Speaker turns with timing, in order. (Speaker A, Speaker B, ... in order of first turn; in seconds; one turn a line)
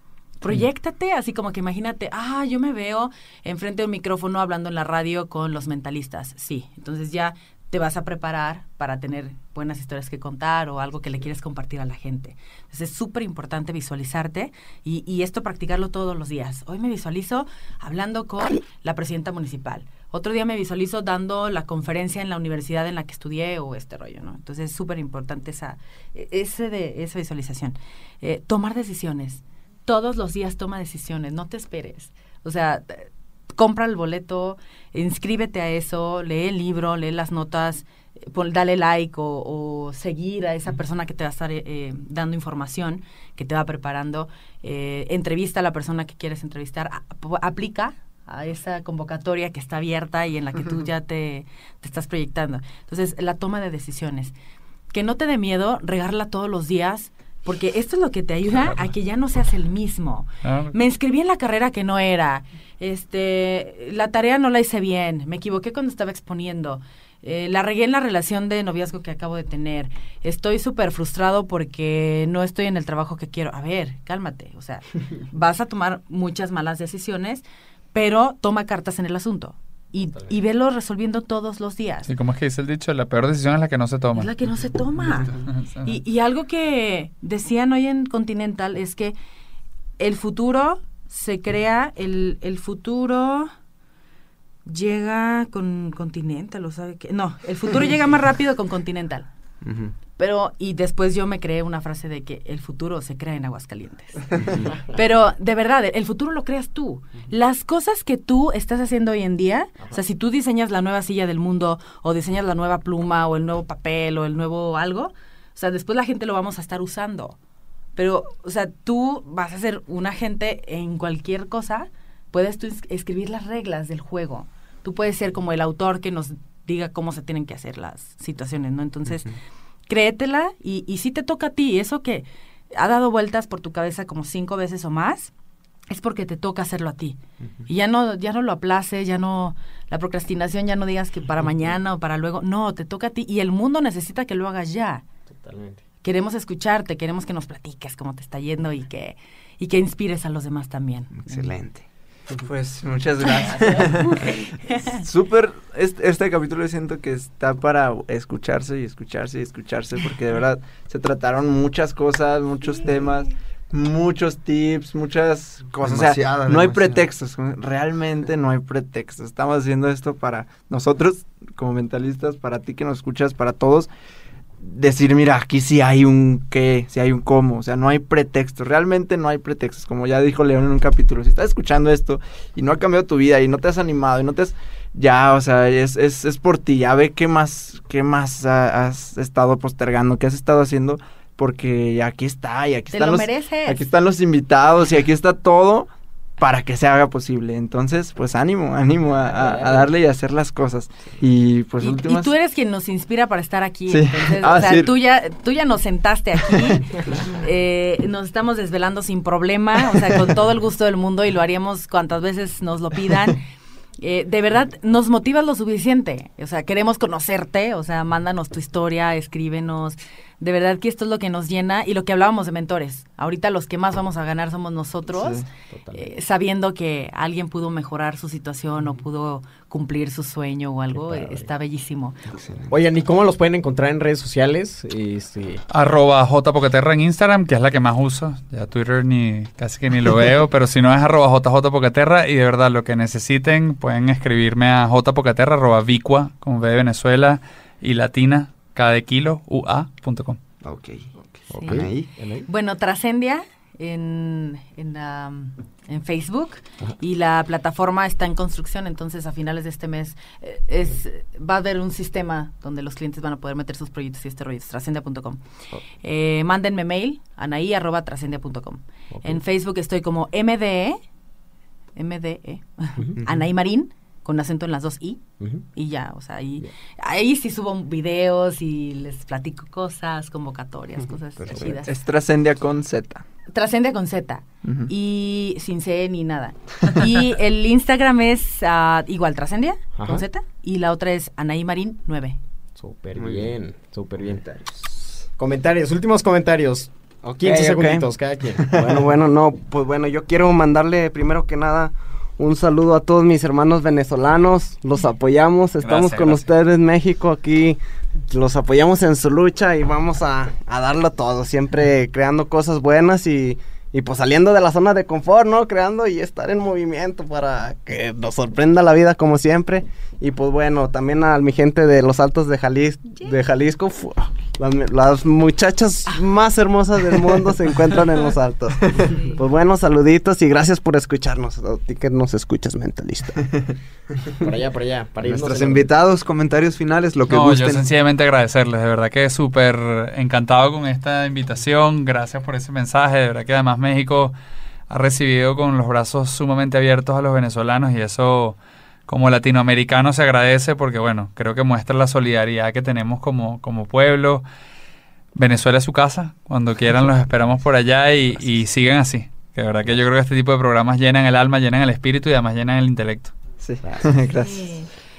Speaker A: 0.4-54.3
Speaker A: 54.9-82.1
Speaker B: 60.4-60.7
Speaker B: 82.1-84.3
Speaker A: 84.2-89.1
Speaker B: 85.0-85.9
Speaker A: 90.0-93.5
Speaker A: 94.7-99.3
Speaker A: 100.2-104.2
Speaker A: 104.9-117.4
Speaker A: 118.0-129.3
Speaker A: 129.9-135.3
Speaker A: 135.9-145.0
Speaker C: 145.3-145.8
Speaker A: 146.0-151.4
Speaker D: 151.1-151.8
Speaker E: 152.4-154.4
Speaker A: 153.3-155.0
Speaker E: 154.9-173.9
Speaker D: 165.8-167.1
Speaker E: 174.6-195.9
Speaker A: 192.9-193.9
Speaker E: 196.4-202.3
Speaker C: 199.3-199.9
Speaker A: 201.8-213.4
Speaker E: 203.9-204.9
Speaker A: 214.0-232.2
Speaker E: 225.2-225.4
Speaker C: 225.7-226.1
Speaker C: 230.9-231.5
Speaker C: 232.7-235.6
Speaker B: 235.7-250.4
Speaker D: 250.6-251.1
Speaker C: 251.5-252.4
Speaker A: 251.6-251.9
Speaker D: 251.7-252.1
Speaker A: 252.4-265.4
Speaker A: 266.0-271.0
Speaker C: 269.1-269.4
Speaker A: 271.9-275.2
Speaker C: 273.0-273.3
Speaker A: 275.7-281.9
Speaker C: 281.5-281.8
Speaker E: 281.8-283.2
Speaker A: 283.5-292.4
Speaker E: 284.6-284.9
Speaker C: 289.9-290.2
Speaker C: 292.8-294.4
Speaker F: 293.2-293.5
Speaker F: 294.3-294.8
Speaker C: 295.4-299.0
Speaker F: 297.2-298.1
Speaker F: 298.6-333.4
Speaker B: 305.8-306.5
Speaker A: 323.1-323.4
Speaker A: 329.1-329.4
Speaker C: 334.4-335.9
Speaker D: 335.2-337.9
Speaker B: 337.3-344.3
Speaker B: 344.9-354.4
Speaker B: 355.3-363.3
Speaker E: 363.6-364.6
Speaker C: 363.8-364.2
Speaker A: 364.3-364.9